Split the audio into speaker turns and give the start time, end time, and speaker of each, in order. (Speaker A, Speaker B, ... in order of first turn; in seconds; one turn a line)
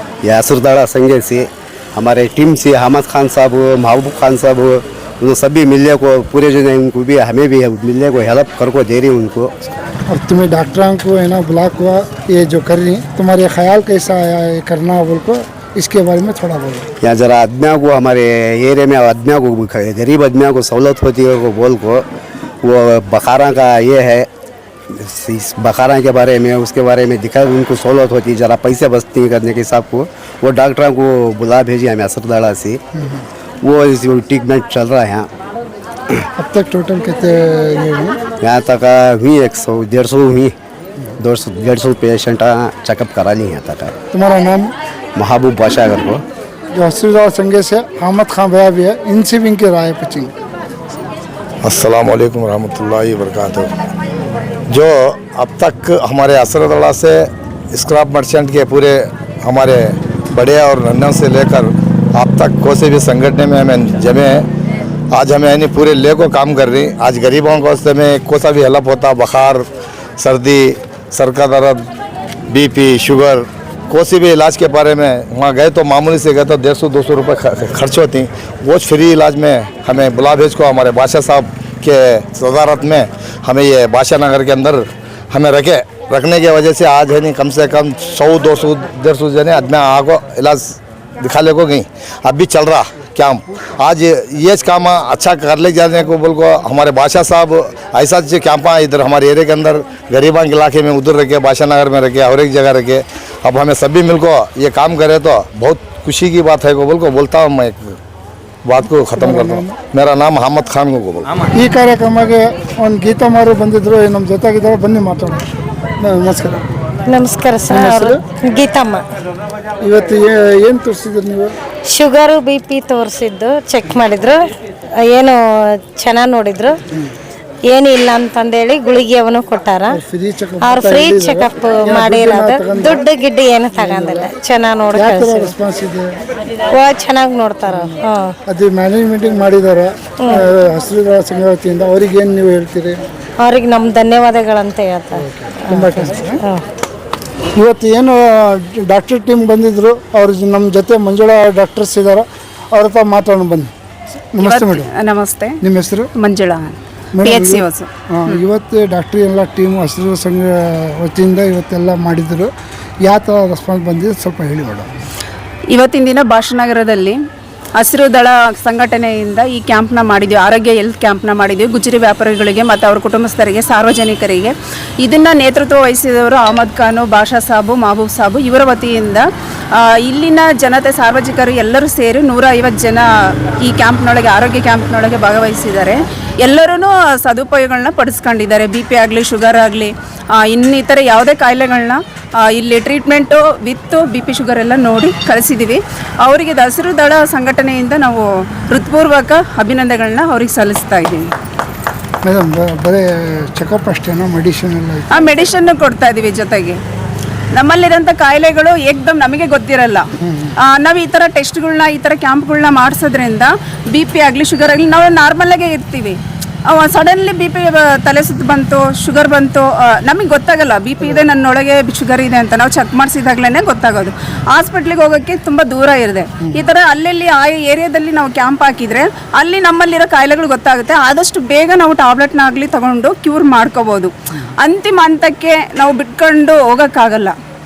Speaker A: 0.2-9.5
Speaker B: 10.1-16.9
Speaker A: 17.0-22.0
Speaker A: 22.6-24.3
Speaker A: 24.9-32.8
Speaker B: 33.0-33.2
Speaker A: 33.6-35.3
Speaker B: 36.4-38.2
Speaker A: 38.4-40.5
Speaker A: 41.2-43.9
Speaker B: 44.1-44.7
Speaker A: 45.2-46.2
Speaker B: 46.8-50.3
Speaker C: 51.6-53.7
Speaker C: 54.7-64.5
Speaker C: 65.1-69.7
Speaker C: 70.2-71.8
Speaker C: 72.5-108.0
Speaker C: 108.7-111.3
Speaker B: 109.1-109.8
Speaker B: 111.5-115.5
Speaker B: 116.0-116.6
Speaker D: 117.1-119.0
Speaker B: 117.7-118.2
Speaker B: 119.8-121.5
Speaker D: 121.9-124.5
Speaker D: 125.1-126.8
Speaker D: 127.7-130.0
Speaker B: 129.9-133.1
Speaker D: 130.6-135.6
Speaker B: 133.7-134.3
Speaker B: 134.9-136.1
Speaker D: 136.7-138.3
Speaker B: 137.7-143.0
Speaker D: 143.4-146.6
Speaker B: 145.1-146.4
Speaker B: 147.6-153.7
Speaker B: 154.3-154.9
Speaker E: 154.4-155.6
Speaker B: 155.6-156.1
Speaker E: 156.2-158.4
Speaker B: 157.1-162.5
Speaker B: 163.1-164.9
Speaker E: 165.7-167.2
Speaker E: 167.8-201.3
Speaker B: 202.2-205.2
Speaker E: 205.1-206.8
Speaker E: 207.6-210.1
Speaker B: 210.3-210.5
Speaker E: 210.6-237.3